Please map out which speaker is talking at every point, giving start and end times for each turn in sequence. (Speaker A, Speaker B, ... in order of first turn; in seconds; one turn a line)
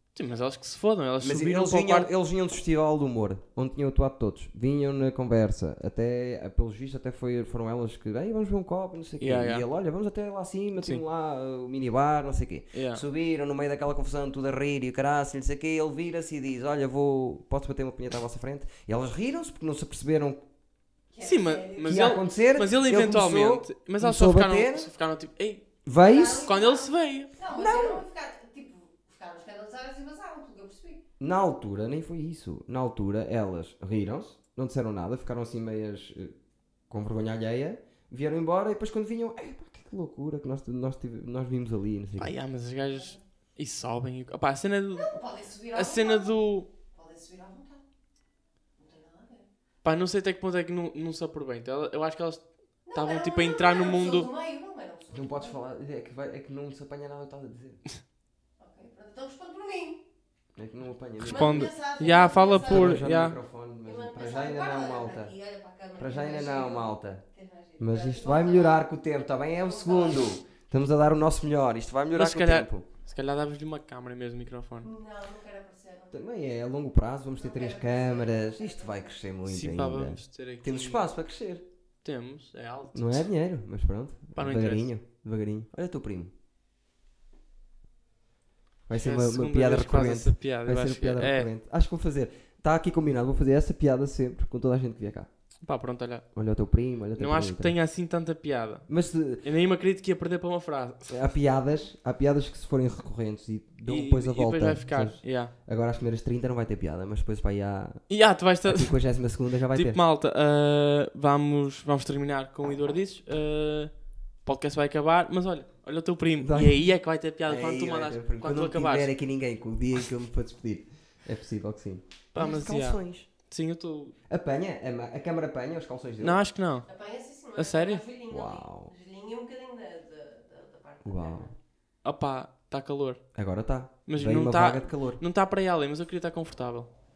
Speaker A: 0.1-2.1
Speaker B: 1.2-20.4
Speaker A: 9.2-9.7
Speaker A: 10.8-11.0
Speaker A: 12.7-13.0
Speaker C: 21.1-22.0
Speaker A: 21.2-25.7
Speaker B: 21.8-24.9
Speaker B: 25.9-26.5
Speaker C: 26.0-31.0
Speaker A: 26.2-27.3
Speaker B: 27.5-28.0
Speaker B: 31.2-36.4
Speaker B: 36.9-42.4
Speaker A: 42.2-45.1
Speaker C: 42.9-43.2
Speaker C: 44.9-46.4
Speaker A: 45.7-46.7
Speaker C: 46.9-47.8
Speaker C: 48.8-49.5
Speaker A: 49.8-54.3
Speaker C: 52.9-55.6
Speaker B: 55.1-57.8
Speaker C: 58.6-60.0
Speaker B: 60.6-65.3
Speaker A: 61.2-63.4
Speaker C: 61.2-63.0
Speaker C: 63.9-68.9
Speaker B: 66.0-67.2
Speaker B: 67.8-72.8
Speaker C: 69.6-70.3
Speaker A: 72.1-74.9
Speaker C: 74.8-76.2
Speaker B: 76.1-81.6
Speaker C: 77.3-79.2
Speaker A: 79.5-81.0
Speaker A: 82.0-83.3
Speaker B: 82.9-86.3
Speaker A: 84.3-84.9
Speaker B: 88.9-95.3
Speaker A: 88.9-91.5
Speaker A: 95.6-96.3
Speaker B: 96.3-97.8
Speaker A: 97.2-98.9
Speaker B: 98.9-99.5
Speaker A: 99.4-101.2
Speaker B: 101.1-108.1
Speaker A: 103.8-105.5
Speaker A: 108.1-109.0
Speaker B: 108.7-110.0
Speaker A: 109.7-113.9
Speaker A: 114.5-119.1
Speaker B: 116.4-116.8
Speaker B: 117.5-123.3
Speaker A: 122.3-124.2
Speaker B: 124.3-126.5
Speaker A: 126.2-126.9
Speaker C: 126.9-131.5
Speaker A: 127.6-128.0
Speaker B: 128.3-128.9
Speaker B: 131.1-131.5
Speaker A: 132.0-133.2
Speaker B: 133.3-135.2
Speaker A: 134.1-136.9